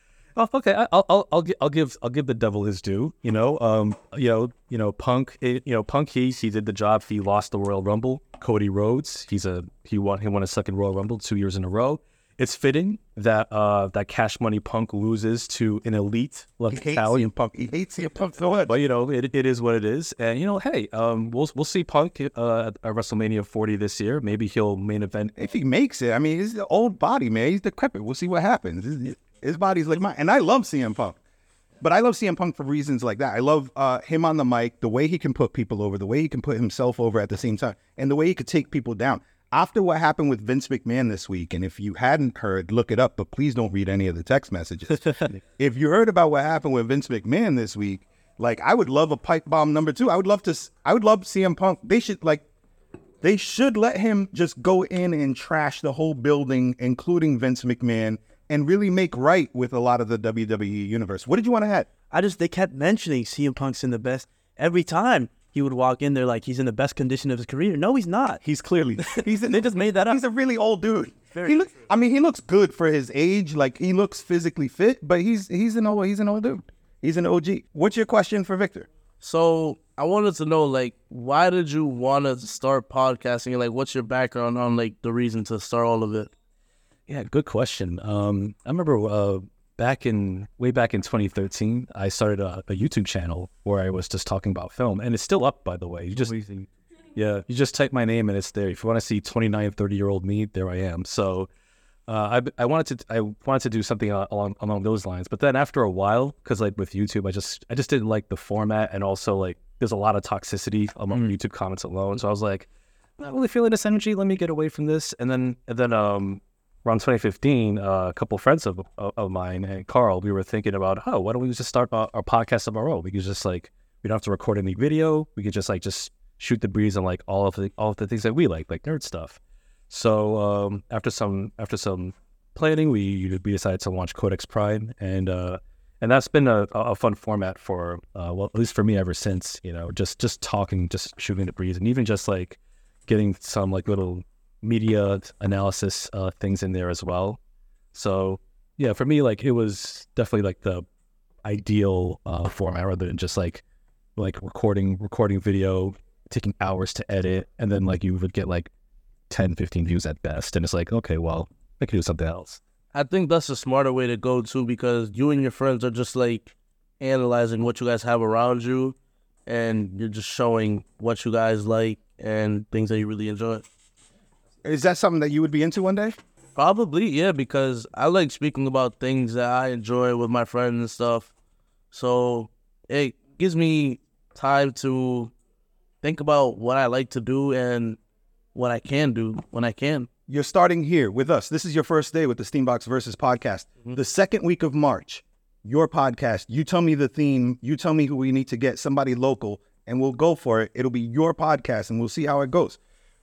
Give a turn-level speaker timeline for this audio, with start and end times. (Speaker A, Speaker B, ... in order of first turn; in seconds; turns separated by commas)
Speaker A: 0.3-17.2, Speaker B: 16.7-18.7, Speaker A: 18.6-25.4, Speaker B: 25.4-31.2, Speaker B: 31.8-52.5, Speaker B: 53.2-61.9, Speaker C: 62.1-68.4, Speaker B: 68.4-78.9, Speaker C: 69.0-70.2, Speaker C: 71.3-71.7, Speaker D: 79.2-86.3, Speaker A: 87.1-96.3, Speaker A: 97.1-101.5, Speaker A: 102.1-112.7, Speaker A: 113.2-147.4, Speaker A: 147.9-150.8, Speaker A: 151.4-153.6, Speaker A: 154.2-158.7, Speaker A: 159.3-162.6, Speaker D: 162.9-168.9, Speaker D: 169.5-173.6, Speaker B: 174.6-176.2, Speaker D: 176.6-181.3, Speaker D: 181.9-185.3, Speaker D: 186.0-188.0, Speaker D: 188.5-190.1, Speaker B: 190.3-202.8